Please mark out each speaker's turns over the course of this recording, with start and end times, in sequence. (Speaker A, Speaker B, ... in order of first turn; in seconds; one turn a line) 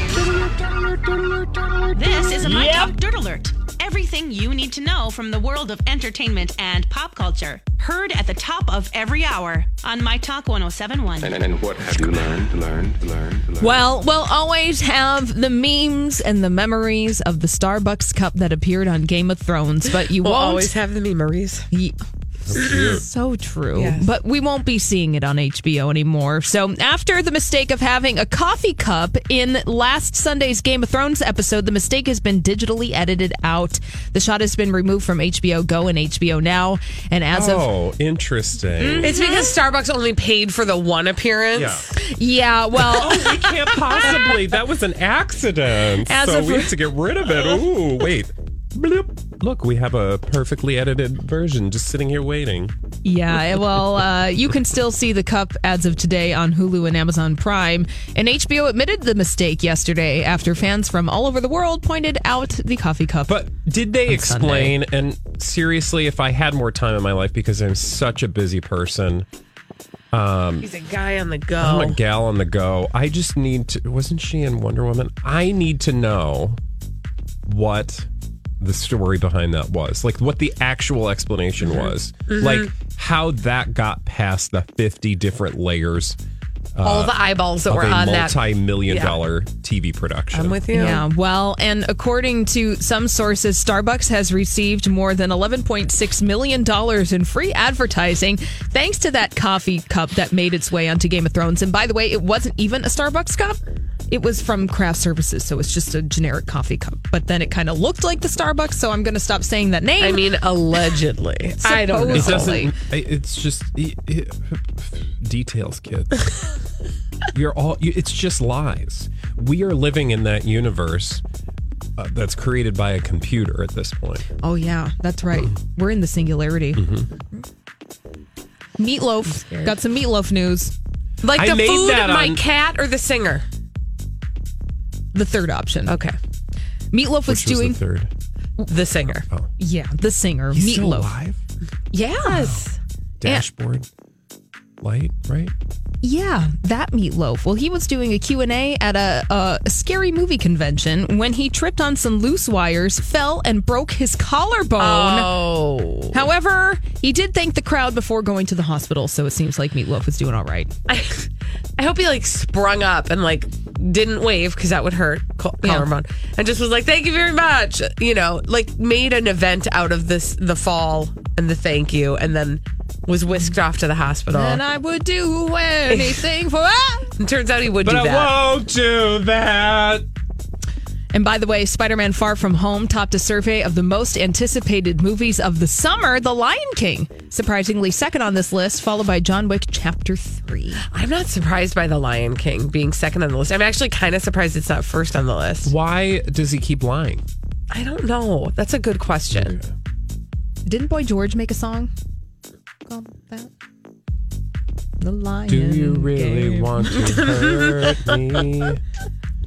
Speaker A: 0.1-2.8
Speaker B: 1.9-11.4
Speaker C: 11.2-13.8
Speaker D: 13.6-20.7
Speaker E: 20.1-21.7
Speaker D: 21.7-22.0
Speaker A: 22.5-23.0
Speaker D: 22.6-37.7
Speaker E: 23.7-24.1
Speaker A: 37.3-39.1
Speaker D: 38.8-39.5
Speaker E: 39.0-41.8
Speaker A: 41.5-41.9
Speaker D: 42.0-43.4
Speaker A: 42.8-52.7
Speaker D: 44.0-44.4
Speaker D: 46.1-46.7
Speaker D: 53.0-63.5
Speaker A: 63.3-69.2
Speaker D: 64.0-64.8
Speaker A: 70.1-70.7
Speaker E: 70.6-72.0
Speaker A: 71.6-76.6
Speaker A: 77.5-78.1
Speaker A: 78.6-86.2
Speaker E: 81.6-82.7
Speaker A: 86.8-90.6
Speaker E: 86.8-89.2
Speaker E: 90.3-91.0
Speaker D: 90.7-110.2
Speaker E: 110.0-112.7
Speaker D: 111.6-112.7
Speaker A: 112.1-116.3
Speaker A: 117.3-121.2
Speaker A: 122.0-124.2
Speaker D: 124.4-126.8
Speaker A: 126.8-127.1
Speaker D: 128.8-130.7
Speaker E: 129.3-129.7
Speaker E: 131.2-133.4
Speaker A: 131.3-132.4
Speaker D: 135.1-135.9
Speaker E: 135.9-136.1
Speaker D: 136.9-137.8
Speaker A: 137.3-138.1
Speaker E: 138.6-139.2
Speaker D: 139.6-141.1
Speaker A: 140.5-141.4
Speaker D: 141.9-142.2
Speaker E: 142.0-142.8
Speaker A: 142.2-142.6
Speaker A: 143.2-143.9
Speaker A: 144.8-145.5
Speaker D: 146.0-155.3
Speaker E: 154.8-156.2
Speaker D: 156.1-160.7
Speaker E: 160.9-174.6
Speaker D: 165.6-165.9
Speaker D: 174.3-177.1
Speaker E: 175.9-176.2
Speaker E: 177.2-178.3
Speaker A: 177.8-180.0
Speaker D: 181.1-190.8
Speaker E: 190.9-195.7
Speaker A: 195.6-197.2
Speaker E: 197.7-199.6
Speaker A: 199.3-199.7
Speaker D: 200.7-201.9
Speaker D: 202.8-203.5
Speaker D: 205.0-206.9
Speaker A: 205.5-208.8
Speaker E: 206.9-208.4